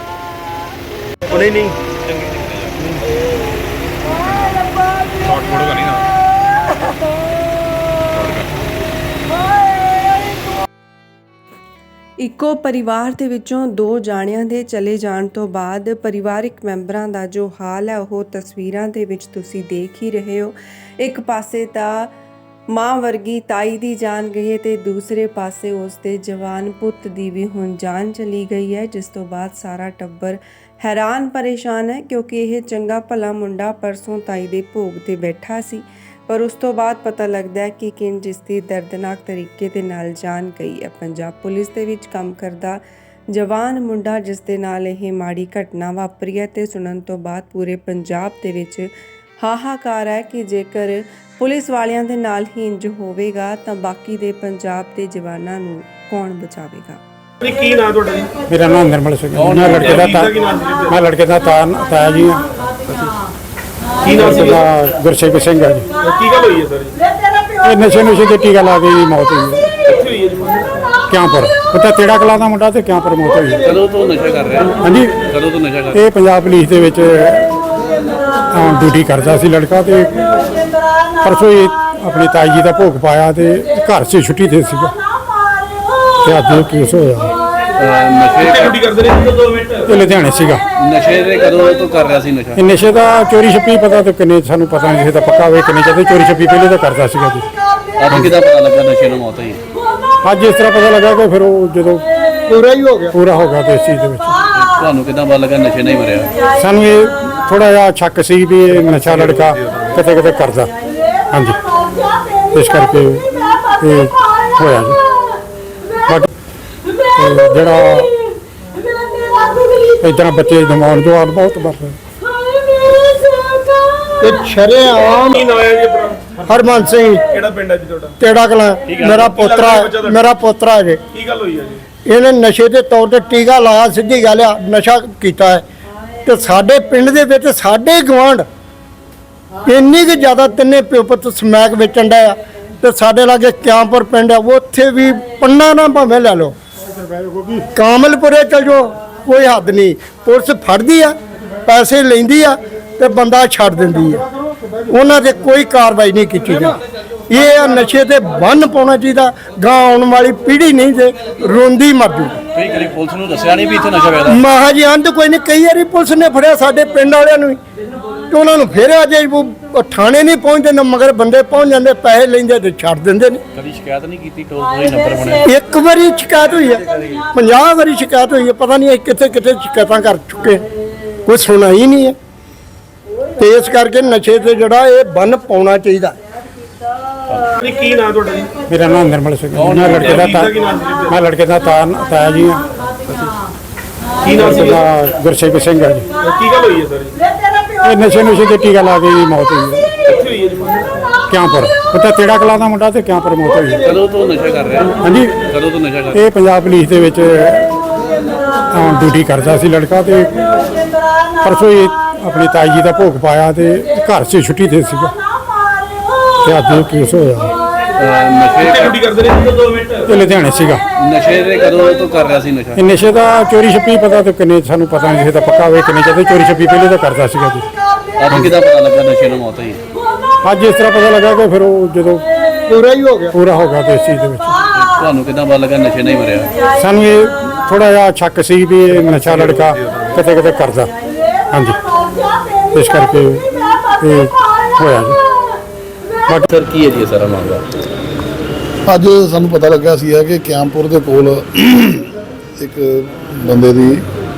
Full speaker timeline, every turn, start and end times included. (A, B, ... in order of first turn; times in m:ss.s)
0:01.3-0:01.8 A
0:05.5-0:05.8 A
0:12.2-0:22.1 B
0:22.7-0:42.8 B
0:43.3-0:48.9 B
0:49.4-0:57.0 B
0:57.4-0:58.3 A
0:58.5-1:00.3 C
0:59.4-1:00.0 D
0:59.9-1:01.0 A
1:00.9-1:02.4 C
1:04.0-1:04.6 A
1:04.0-1:05.9 C
1:06.0-1:07.0 A
1:07.6-1:09.8 C
1:09.9-1:10.7 A
1:11.1-1:13.6 C
1:13.6-1:16.0 D
1:14.8-1:15.2 C
1:15.9-1:17.5 C
1:18.5-1:20.2 C
1:21.2-1:24.9 C
1:26.2-1:27.4 C
1:27.8-1:28.8 D
1:28.4-1:29.8 A
1:29.9-1:30.6 C
1:30.8-1:32.6 D
1:32.6-1:37.5 C
1:38.0-1:39.6 D
1:40.2-1:42.1 C
1:42.5-1:43.2 E
1:43.1-1:44.4 C
1:44.5-1:46.5 D
1:46.6-1:50.7 C
1:51.3-1:51.6 C
1:52.5-1:55.0 C
1:57.2-1:58.1 C
2:00.0-2:02.0 C
2:04.2-2:05.4 E
2:05.3-2:06.3 A
2:06.5-2:07.3 E
2:07.3-2:08.2 A
2:08.2-2:11.0 E
2:08.9-2:09.3 D
2:09.3-2:10.2 A
2:11.1-2:11.8 A
2:12.0-2:15.6 E
2:16.2-2:18.5 E
2:19.7-2:26.6 E
2:27.2-2:27.6 C
2:27.8-2:34.2 E
2:34.9-2:42.4 E
2:42.5-2:44.4 D
2:44.3-2:47.6 E
2:48.3-2:53.4 E
2:53.5-2:55.5 D
2:55.4-3:00.6 E
3:01.3-3:02.2 E
3:03.4-3:06.2 E
3:07.6-3:08.6 A
3:08.7-3:10.5 C
3:09.6-3:10.3 D
3:10.2-3:11.2 A
3:11.1-3:12.6 C
3:14.2-3:14.8 A
3:14.3-3:16.1 C
3:16.2-3:17.2 A
3:17.8-3:20.0 C
3:20.1-3:20.8 A
3:21.3-3:23.9 C
3:23.8-3:26.2 D
3:25.0-3:25.4 C
3:26.1-3:27.8 C
3:28.7-3:30.4 C
3:31.4-3:35.2 C
3:36.4-3:37.5 C
3:38.0-3:39.1 D
3:38.6-3:40.0 A
3:40.1-3:40.8 C
3:41.0-3:42.8 D
3:42.8-3:47.7 C
3:48.2-3:49.8 D
3:50.4-3:52.3 C
3:52.7-3:53.4 E
3:53.3-3:54.6 C
3:54.7-3:56.6 D
3:56.8-4:00.9 C
4:01.5-4:01.8 C
4:02.7-4:05.2 C
4:06.5-4:07.6 D
4:08.9-4:14.0 F